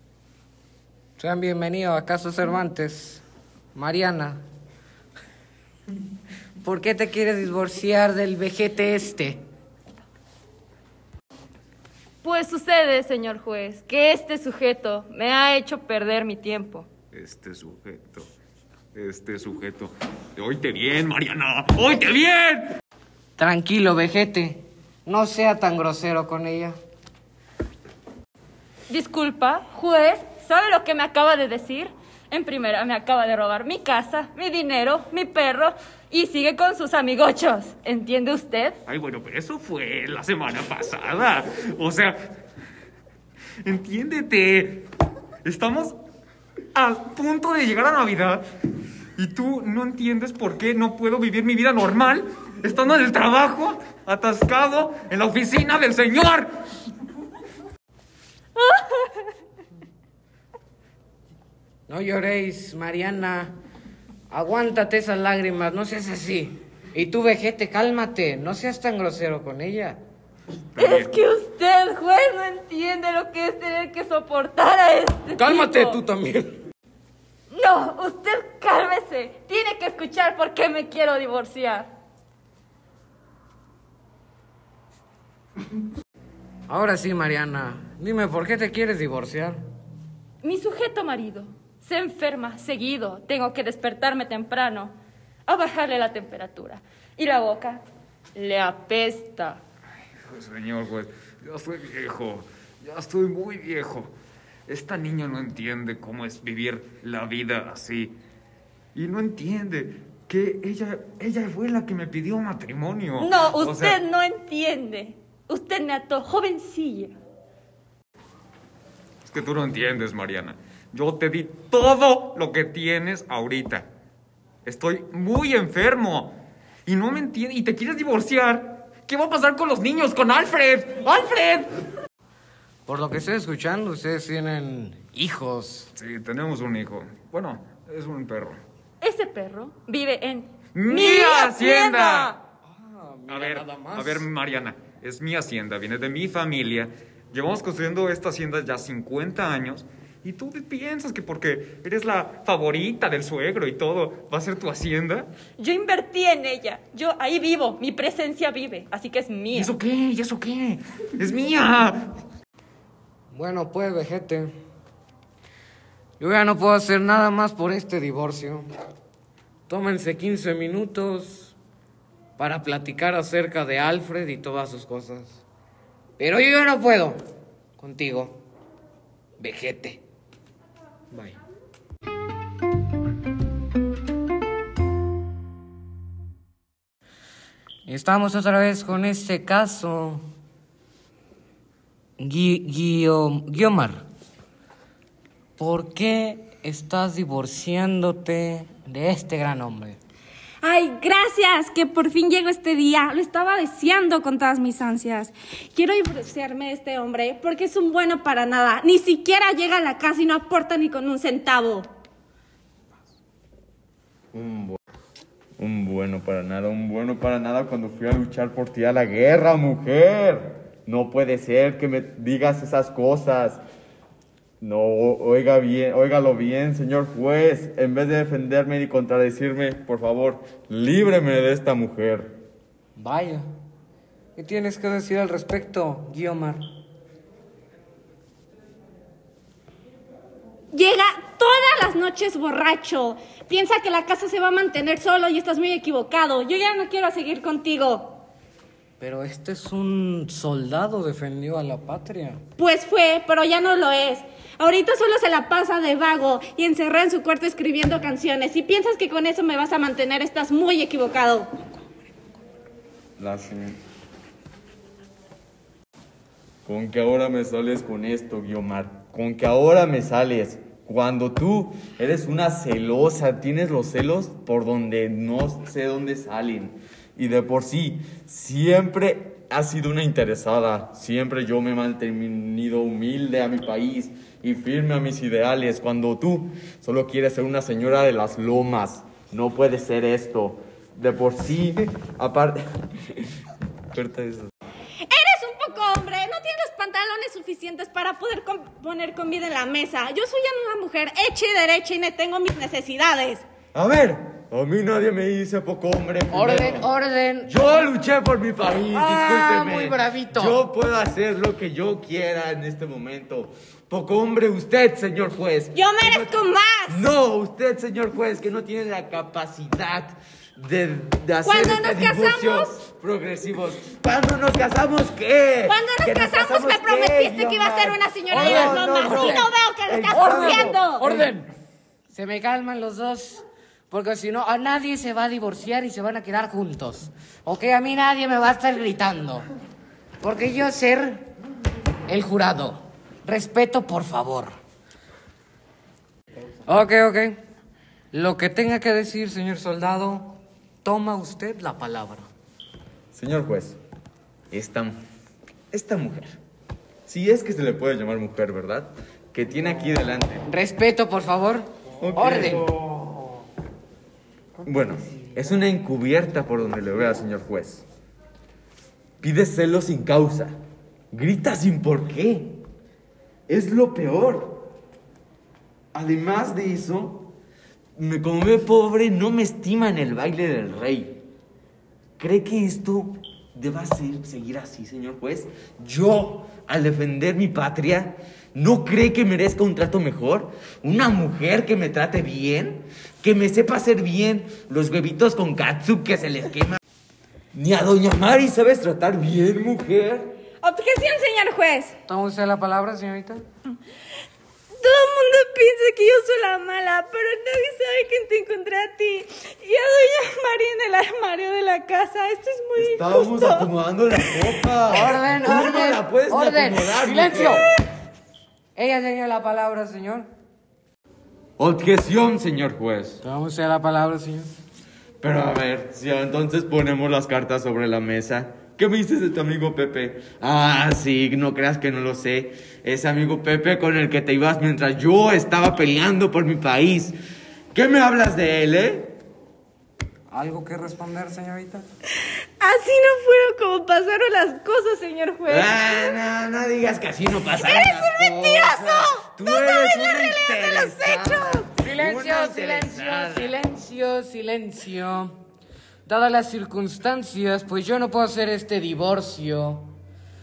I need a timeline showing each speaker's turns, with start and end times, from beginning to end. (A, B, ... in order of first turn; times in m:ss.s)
0:01.2-0:03.2 A
0:03.8-0:04.4 A
0:06.6-0:09.4 A
0:12.2-0:16.9 B
0:17.1-0:18.3 C
0:18.9-0:22.8 C
0:23.4-0:26.8 A
0:28.9-0:38.8 B
0:38.9-0:42.2 C
0:43.6-0:44.9 C
0:45.4-0:46.0 C
0:46.8-0:48.4 C
0:49.2-0:56.5 C
0:58.6-0:59.1 B
1:01.9-1:03.5 A
1:04.3-1:10.0 A
1:10.8-1:11.1 C
1:10.8-1:16.0 B
1:15.4-1:16.6 A
1:17.5-1:21.9 B
1:26.7-1:29.6 A
1:30.4-1:34.9 B
1:35.5-1:37.8 B
1:38.4-1:39.6 B
1:40.3-1:44.1 C
1:44.7-1:48.1 C
1:49.0-1:54.0 C
1:53.2-1:57.1 B
1:59.3-2:03.9 C
2:04.6-2:11.7 C
2:12.9-2:15.9 A
2:16.0-2:18.6 C
2:19.0-2:22.4 B
2:20.8-2:22.4 C
2:22.7-2:24.3 A
2:23.3-2:35.3 C
2:35.6-2:39.7 B
2:39.5-2:42.1 C
2:43.3-2:44.5 A
2:46.2-2:48.7 A
2:49.7-2:51.6 A
2:52.4-2:55.4 A
2:56.2-2:57.2 A
2:57.8-2:58.4 A
2:59.4-3:00.0 A
3:07.9-3:10.2 A
3:12.2-3:14.0 A
3:15.6-3:20.0 A
3:20.6-3:31.9 D
3:34.3-3:34.8 E
3:35.6-3:43.6 E
3:44.6-3:52.3 E
3:53.0-3:53.4 A
3:54.4-3:56.6 A
4:00.7-4:08.2 D
4:09.0-4:12.4 A
4:12.6-4:21.5 D
4:23.2-4:23.8 E
4:26.7-4:53.3 E
4:53.9-4:54.5 E
4:55.1-5:03.4 D
5:03.7-5:06.9 E
5:06.3-5:07.5 A
5:07.4-5:16.2 E
5:08.9-5:10.6 A
5:15.8-5:17.0 D
5:16.9-5:29.3 E
5:21.4-5:22.7 D
5:25.7-5:31.0 D
5:28.3-5:29.5 A
5:29.9-5:30.8 E
5:30.1-5:31.5 A
5:32.1-5:39.4 A
5:40.2-5:41.2 A
5:42.1-5:44.5 A
5:46.7-5:47.4 A
5:48.1-5:52.3 A
5:53.1-5:53.8 E
5:54.5-5:55.0 E
5:55.7-5:56.4 E
5:57.1-6:00.4 E
6:00.5-6:02.7 A
6:02.0-6:02.8 E
6:04.6-6:07.9 E
6:09.2-6:10.6 E
6:11.1-6:12.6 E
6:13.5-6:14.7 E
6:15.9-6:17.3 E
6:18.0-6:21.2 E
6:22.2-6:36.8 E
6:37.5-6:40.3 E
6:40.6-6:42.0 D
6:42.1-6:43.4 A
6:44.8-6:53.7 D
6:52.8-6:57.7 E
6:54.9-6:57.6 A
6:58.8-7:00.3 A
7:01.6-7:03.2 E
7:03.2-7:04.5 A
7:05.2-7:17.2 E
7:17.7-7:19.1 E
7:20.3-7:21.9 A
7:22.6-7:26.2 D
7:25.5-7:33.6 E
7:27.6-7:31.7 D
7:31.8-7:35.4 A
7:36.0-7:39.9 A